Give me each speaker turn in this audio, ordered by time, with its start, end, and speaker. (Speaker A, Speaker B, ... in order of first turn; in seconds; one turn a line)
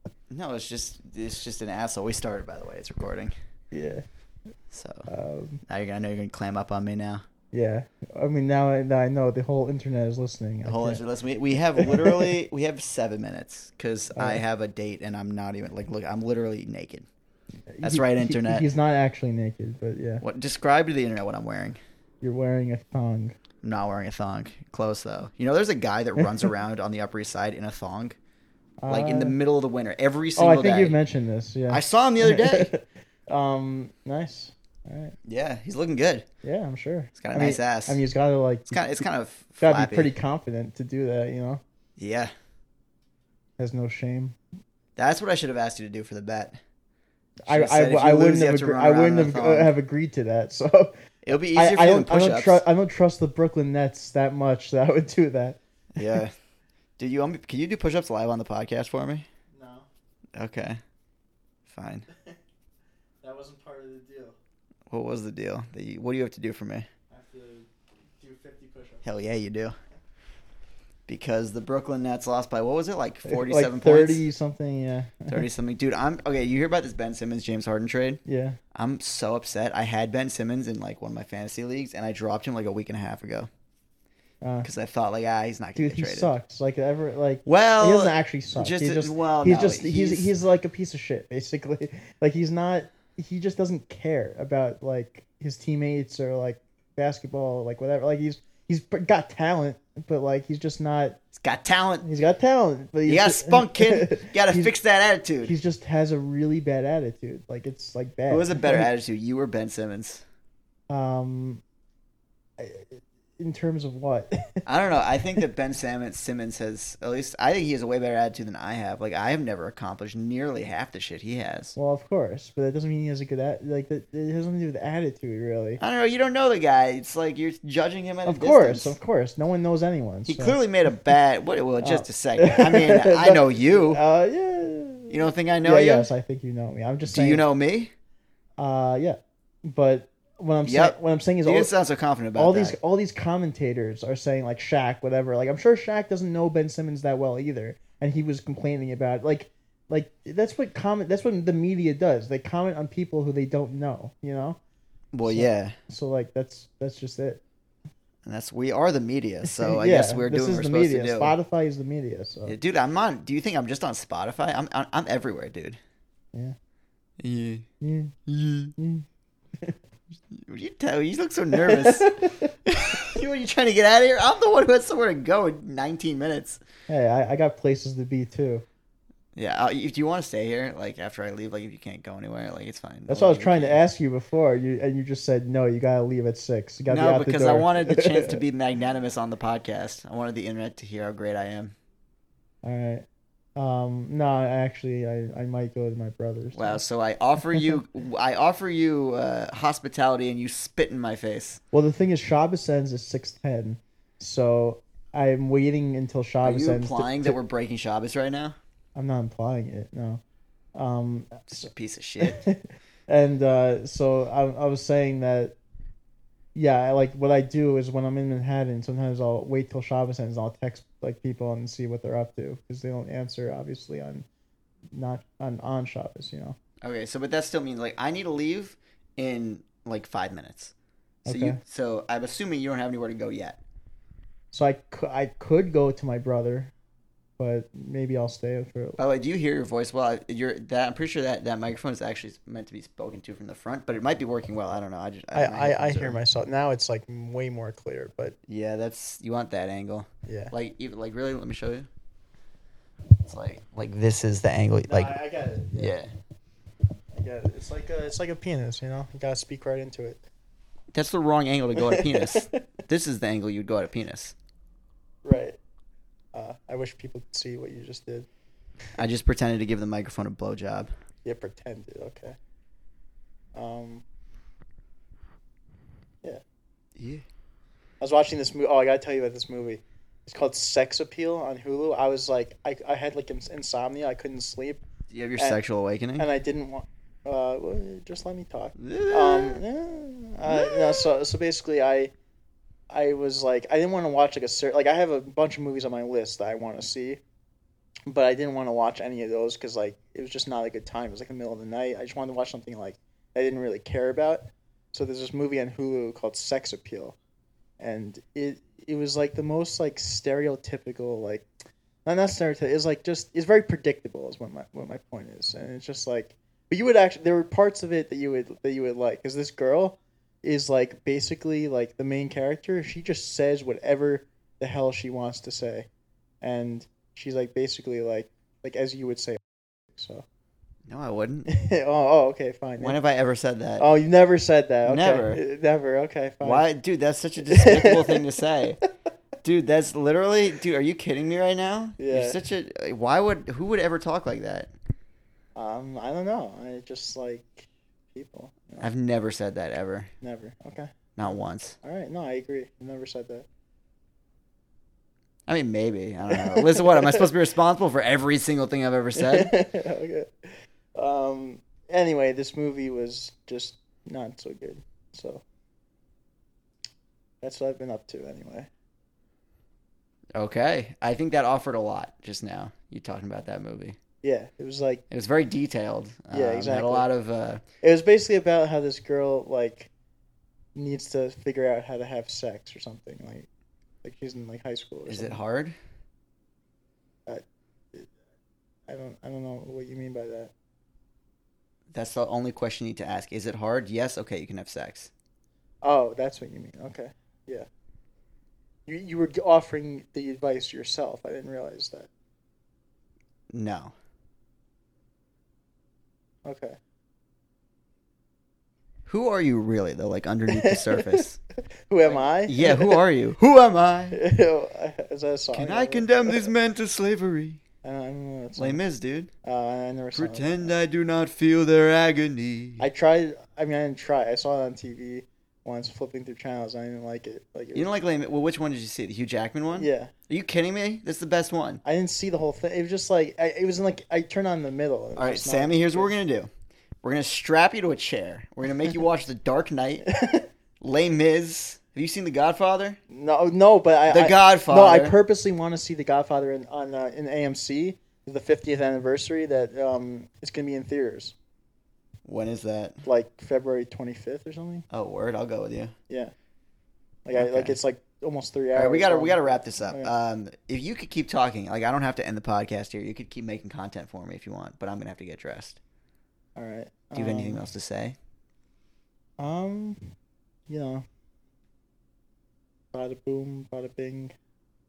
Speaker A: 0.3-3.3
Speaker B: 3.7-4.0
Speaker A: 4.7-5.1
Speaker B: 5.1-5.6
Speaker A: 5.7-7.2
Speaker B: 7.5-11.0
Speaker A: 10.6-17.1
Speaker B: 11.8-12.3
Speaker B: 14.2-14.4
Speaker B: 17.7-20.2
Speaker A: 17.8-18.6
Speaker A: 20.2-21.8
Speaker B: 22.2-23.3
Speaker A: 23.6-28.2
Speaker B: 28.8-29.4
Speaker A: 28.9-31.0
Speaker B: 30.4-35.1
Speaker A: 31.7-32.7
Speaker A: 35.2-36.2
Speaker B: 36.4-38.8
Speaker A: 37.2-38.0
Speaker A: 38.7-40.1
Speaker B: 39.6-41.6
Speaker A: 42.0-42.3
Speaker B: 43.6-44.4
Speaker A: 45.0-46.5
Speaker B: 47.5-50.9
Speaker A: 47.5-49.7
Speaker A: 51.2-52.6
Speaker B: 51.5-56.2
Speaker A: 56.0-56.3
Speaker A: 57.0-59.2
Speaker B: 59.5-59.9
Speaker A: 60.4-60.8
Speaker A: 61.7-62.0
Speaker B: 63.2-64.3
Speaker A: 64.9-66.8
Speaker B: 67.1-67.7
Speaker B: 68.2-69.0
Speaker A: 69.0-69.7
Speaker A: 71.1-74.2
Speaker B: 73.2-75.5
Speaker A: 75.3-78.2
Speaker B: 78.2-78.6
Speaker A: 78.7-83.5
Speaker B: 84.4-84.7
Speaker A: 84.6-86.3
Speaker B: 85.8-101.2
Speaker A: 87.5-90.3
Speaker A: 101.4-102.0
Speaker B: 102.0-104.7
Speaker A: 103.0-105.5
Speaker B: 105.4-108.9
Speaker A: 108.3-110.2
Speaker B: 110.9-111.6
Speaker B: 112.6-114.5
Speaker A: 114.7-121.7
Speaker B: 121.7-125.8
Speaker A: 125.8-128.9
Speaker B: 128.2-130.6
Speaker A: 130.3-134.0
Speaker B: 131.8-137.4
Speaker A: 135.1-136.1
Speaker A: 137.1-137.9
Speaker B: 138.6-141.7
Speaker A: 140.6-142.8
Speaker B: 142.3-154.6
Speaker A: 155.1-155.7
Speaker B: 155.2-157.4
Speaker A: 158.2-161.3
Speaker B: 159.6-162.5
Speaker A: 162.4-165.8
Speaker A: 167.2-167.6
Speaker B: 167.8-168.2
Speaker A: 168.3-168.7
Speaker B: 168.8-169.0
Speaker A: 170.3-176.6
Speaker B: 171.5-172.5
Speaker B: 176.9-178.6
Speaker A: 179.3-183.8
Speaker B: 183.1-188.4
Speaker A: 186.9-191.7
Speaker B: 192.6-193.0
Speaker B: 193.6-196.8
Speaker A: 196.5-201.6
Speaker B: 201.7-207.4
Speaker A: 206.4-208.6
Speaker B: 208.9-210.2
Speaker B: 210.7-211.7
Speaker A: 211.5-212.4
Speaker B: 212.2-215.6
Speaker B: 216.5-224.2
Speaker B: 224.9-226.6
Speaker A: 226.8-230.7
Speaker B: 231.2-231.6
Speaker A: 231.2-233.6
Speaker B: 234.5-236.7
Speaker B: 237.4-239.0
Speaker A: 239.0-246.2
Speaker B: 245.3-248.3
Speaker A: 248.5-251.9
Speaker B: 250.2-250.5
Speaker A: 253.2-255.2
Speaker B: 254.9-256.0
Speaker A: 255.8-256.1
Speaker B: 257.1-260.2
Speaker A: 260.9-264.3
Speaker B: 261.8-262.7
Speaker B: 265.2-265.6
Speaker B: 266.3-268.3
Speaker A: 268.9-270.9
Speaker B: 271.2-272.4
Speaker B: 273.5-274.0
Speaker A: 276.9-277.2
Speaker B: 278.0-284.8
Speaker A: 285.1-286.3
Speaker B: 286.2-292.1
Speaker A: 288.8-289.6
Speaker A: 290.4-291.1
Speaker B: 292.9-297.2
Speaker B: 298.1-307.2
Speaker B: 307.8-311.4
Speaker B: 312.0-325.9
Speaker B: 326.4-330.2
Speaker A: 330.9-331.5
Speaker B: 331.5-333.0
Speaker A: 332.8-333.9
Speaker B: 333.8-336.6
Speaker A: 334.8-335.4
Speaker A: 336.4-338.8
Speaker B: 337.4-338.2
Speaker A: 339.4-344.7
Speaker B: 342.0-342.4
Speaker B: 345.6-348.9
Speaker A: 348.8-350.1
Speaker B: 350.2-350.9
Speaker A: 351.1-351.8
Speaker B: 351.8-353.4
Speaker A: 355.5-359.5
Speaker B: 356.3-357.3
Speaker B: 359.2-365.4
Speaker B: 367.4-368.7
Speaker A: 370.4-374.0
Speaker B: 374.2-375.0
Speaker A: 375.1-377.6
Speaker B: 376.3-377.1
Speaker B: 377.8-379.9
Speaker B: 380.8-383.5
Speaker B: 384.0-385.4
Speaker A: 385.1-385.8
Speaker B: 387.2-388.1
Speaker B: 388.9-390.5
Speaker A: 391.9-395.1
Speaker B: 395.8-397.7
Speaker B: 398.9-402.1
Speaker A: 403.5-403.9
Speaker B: 406.4-406.8
Speaker A: 409.1-411.4
Speaker B: 410.5-411.2
Speaker B: 411.9-413.0
Speaker A: 412.1-414.2
Speaker B: 414.1-416.5
Speaker A: 415.5-417.6
Speaker B: 417.8-418.8
Speaker A: 418.6-419.3
Speaker B: 419.4-420.7
Speaker A: 420.1-422.8
Speaker B: 422.8-427.9
Speaker A: 427.7-431.8
Speaker B: 429.7-430.1
Speaker B: 431.8-436.1
Speaker A: 435.1-436.5
Speaker A: 437.0-440.1
Speaker B: 440.1-440.5
Speaker A: 440.8-443.0
Speaker B: 443.1-451.3
Speaker A: 444.1-445.1
Speaker A: 452.2-453.0
Speaker B: 453.0-454.9
Speaker A: 454.9-455.9
Speaker B: 457.2-460.1
Speaker A: 457.3-457.8
Speaker A: 458.7-465.8
Speaker B: 466.6-467.6
Speaker A: 467.1-468.1
Speaker B: 469.4-470.0
Speaker B: 470.7-471.0
Speaker B: 472.9-474.3